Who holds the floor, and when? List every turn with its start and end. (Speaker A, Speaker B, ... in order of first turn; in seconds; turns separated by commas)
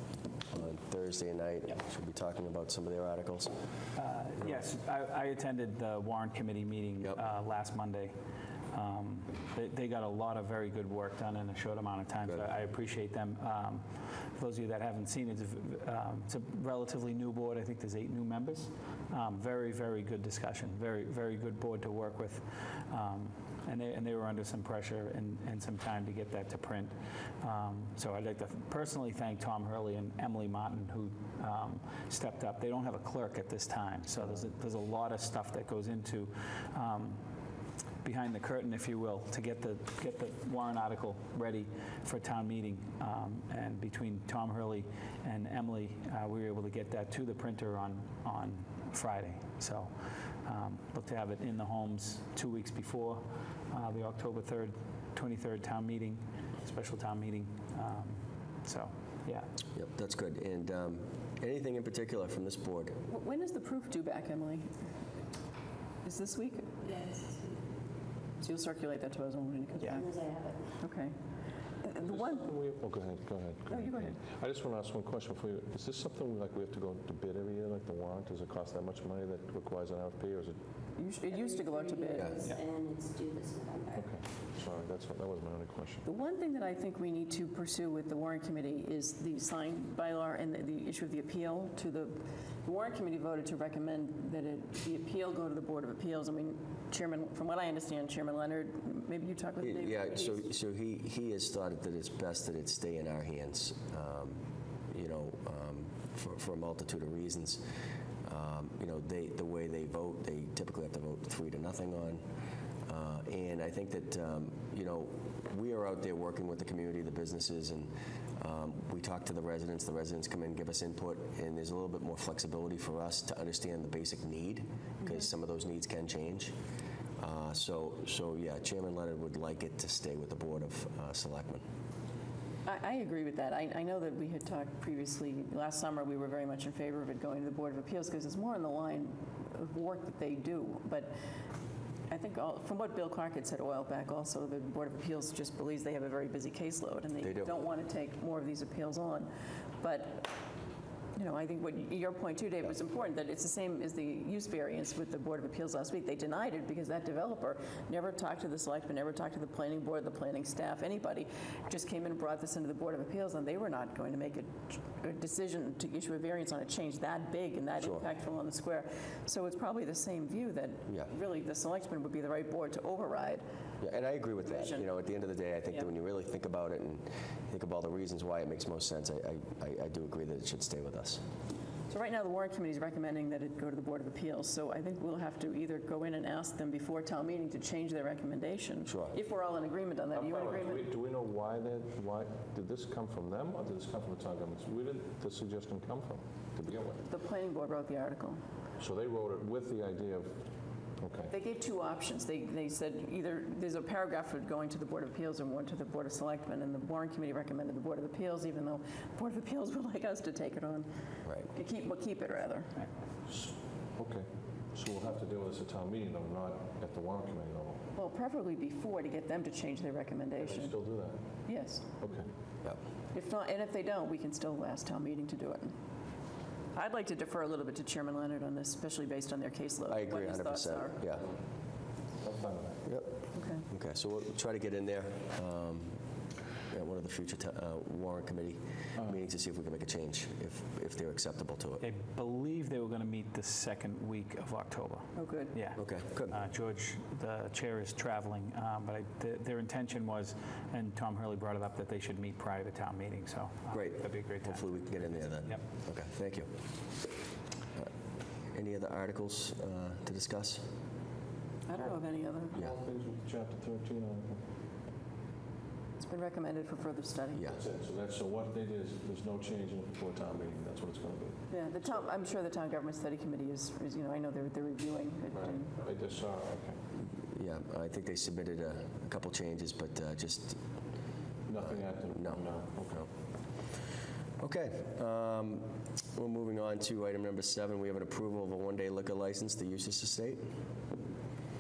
Speaker A: 0.5-3.5, Speaker B: 4.0-8.1, Speaker B: 8.7-37.2, Speaker B: 38.0-59.5, Speaker A: 59.8-62.9, Speaker C: 63.1-64.7, Speaker C: 66.0-66.9, Speaker D: 66.8-67.6, Speaker C: 68.4-70.2, Speaker D: 69.8-70.8, Speaker C: 70.8-71.1, Speaker C: 71.8-72.5, Speaker E: 72.0-80.6, Speaker C: 73.7-74.2, Speaker C: 81.0-82.4, Speaker D: 81.3-84.1, Speaker E: 83.9-86.0, Speaker C: 86.0-100.5, Speaker A: 99.6-107.6, Speaker A: 108.2-112.2, Speaker A: 112.9-126.5, Speaker A: 127.2-131.6, Speaker C: 132.7-141.1, Speaker C: 142.1-150.3, Speaker A: 147.2-147.5, Speaker C: 151.2-173.4, Speaker A: 167.8-168.1, Speaker A: 173.8-181.2, Speaker C: 174.4-174.9, Speaker C: 181.9-190.9, Speaker A: 188.9-189.1, Speaker E: 190.1-197.0, Speaker C: 197.0-198.4, Speaker E: 198.8-200.4, Speaker E: 201.0-201.3, Speaker C: 201.3-210.9, Speaker C: 211.5-212.8, Speaker E: 213.3-217.8, Speaker C: 218.0-220.8, Speaker E: 220.4-221.2, Speaker C: 221.5-221.9, Speaker E: 222.0-222.3, Speaker C: 223.1-225.7, Speaker C: 226.7-231.0, Speaker A: 229.9-231.3, Speaker E: 232.2-232.8, Speaker A: 232.8-233.2, Speaker C: 233.3-233.7, Speaker A: 233.7-236.0, Speaker A: 236.7-241.8, Speaker B: 241.8-255.6, Speaker C: 245.2-245.6, Speaker A: 245.8-246.4, Speaker A: 253.7-256.5, Speaker A: 258.5-260.6, Speaker C: 261.7-262.6, Speaker E: 262.5-264.4, Speaker C: 266.0-267.5, Speaker A: 267.3-267.6, Speaker E: 267.5-272.0, Speaker C: 271.5-275.7, Speaker E: 275.4-276.8, Speaker A: 277.3-280.6, Speaker E: 281.5-283.1, Speaker A: 282.1-282.4, Speaker A: 284.4-290.4